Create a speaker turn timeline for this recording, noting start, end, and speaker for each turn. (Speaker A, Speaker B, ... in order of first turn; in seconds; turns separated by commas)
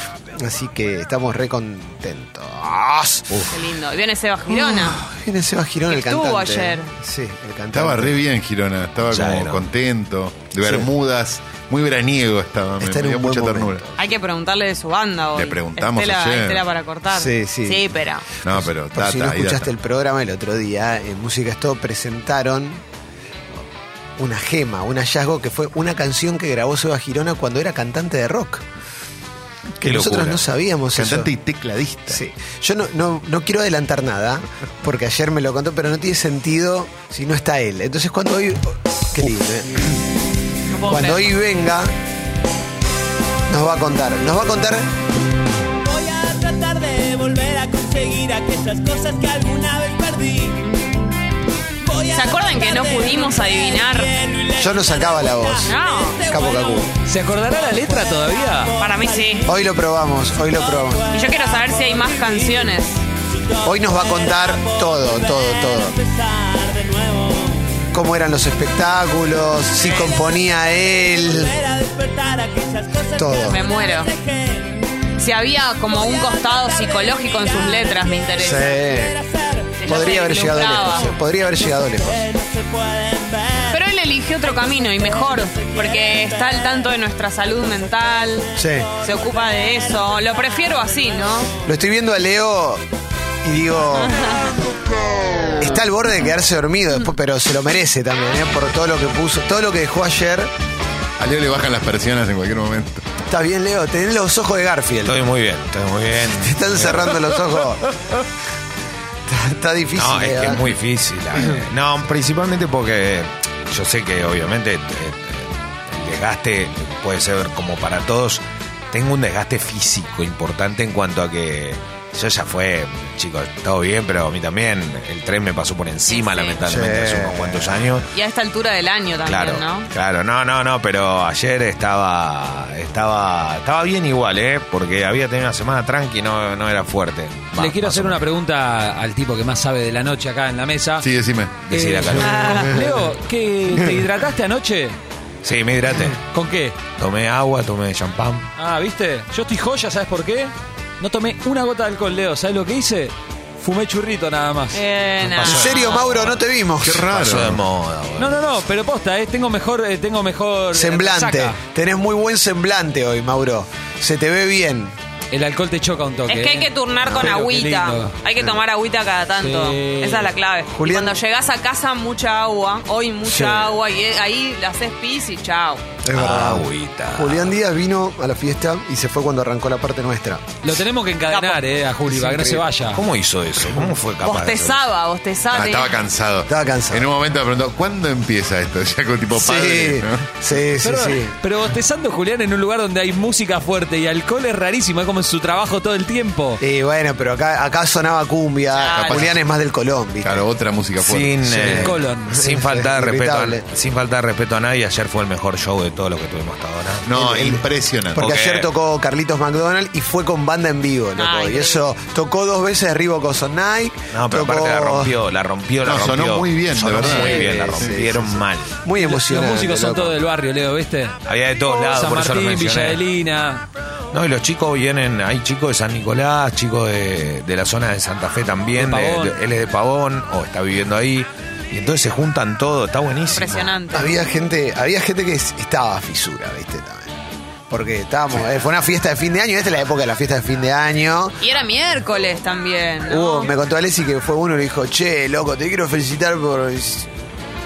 Speaker A: 0.3-3.5, Speaker B: 3.5-5.0, Speaker A: 4.5-8.2, Speaker B: 5.9-6.9, Speaker C: 7.7-13.9, Speaker D: 9.1-9.7, Speaker A: 10.6-10.9, Speaker A: 12.8-13.8, Speaker B: 14.0-18.2, Speaker C: 15.3-16.6, Speaker A: 17.1-17.9, Speaker C: 18.4-19.7, Speaker A: 18.4-22.8, Speaker A: 24.2-28.6, Speaker A: 29.8-31.3, Speaker D: 29.8-30.4, Speaker C: 30.9-32.2, Speaker A: 32.1-40.0, Speaker B: 40.7-41.3, Speaker A: 40.8-41.9, Speaker A: 43.5-44.9, Speaker E: 46.4-50.3, Speaker B: 52.0-54.2, Speaker A: 54.6-56.9, Speaker B: 55.6-56.3, Speaker F: 57.0-58.8, Speaker B: 58.8-59.5, Speaker A: 59.4-61.2, Speaker B: 61.1-63.0, Speaker A: 63.6-66.0, Speaker A: 67.9-71.6, Speaker A: 73.1-73.6, Speaker B: 73.4-74.2, Speaker B: 75.2-78.9, Speaker A: 78.4-79.2, Speaker B: 79.8-81.1, Speaker A: 79.8-82.3, Speaker B: 83.6-91.6, Speaker A: 88.5-89.0, Speaker A: 91.6-92.8, Speaker A: 93.4-94.2, Speaker B: 94.0-94.5, Speaker A: 95.5-100.5, Speaker C: 101.2-103.0, Speaker A: 103.3-105.2, Speaker D: 105.0-107.2, Speaker A: 106.3-107.8, Speaker A: 109.3-110.7, Speaker D: 110.0-128.1, Speaker B: 126.1-126.7, Speaker A: 126.7-127.9, Speaker B: 128.1-129.9, Speaker D: 129.2-138.2, Speaker F: 137.5-141.1, Speaker C: 141.0-141.6, Speaker D: 141.7-142.7, Speaker F: 141.7-145.0, Speaker B: 142.2-142.7, Speaker A: 142.3-143.1, Speaker D: 145.4-146.2, Speaker F: 146.3-146.8, Speaker D: 147.0-148.5, Speaker F: 148.6-154.8, Speaker B: 154.7-156.3, Speaker D: 155.3-156.4, Speaker A: 155.4-157.1, Speaker C: 156.8-157.6, Speaker D: 157.1-158.6, Speaker F: 158.2-161.6, Speaker A: 160.7-165.0, Speaker F: 165.3-168.2, Speaker B: 166.3-175.8, Speaker F: 169.4-170.3, Speaker A: 170.7-171.2, Speaker A: 173.2-173.8, Speaker A: 176.0-180.7, Speaker D: 176.1-177.5, Speaker F: 180.6-183.0, Speaker B: 181.3-181.6, Speaker A: 182.1-182.7, Speaker D: 182.9-184.8, Speaker B: 184.2-186.0, Speaker C: 185.5-190.2, Speaker A: 186.5-187.1, Speaker A: 189.3-191.4, Speaker F: 190.8-196.6, Speaker A: 196.6-200.5, Speaker B: 198.7-199.3, Speaker C: 198.9-199.4, Speaker C: 200.2-201.4, Speaker D: 201.0-207.1, Speaker A: 201.5-203.6, Speaker F: 201.6-202.3, Speaker C: 207.1-208.3, Speaker A: 207.1-215.2, Speaker D: 208.2-208.7, Speaker B: 211.2-211.8, Speaker D: 214.1-218.8, Speaker C: 215.8-217.9, Speaker A: 217.0-220.2, Speaker F: 219.0-223.6, Speaker D: 221.3-223.0, Speaker D: 224.1-233.7, Speaker F: 228.8-229.4, Speaker B: 233.3-234.2, Speaker A: 233.9-237.1, Speaker A: 237.7-241.4, Speaker B: 241.4-243.5, Speaker A: 243.1-247.1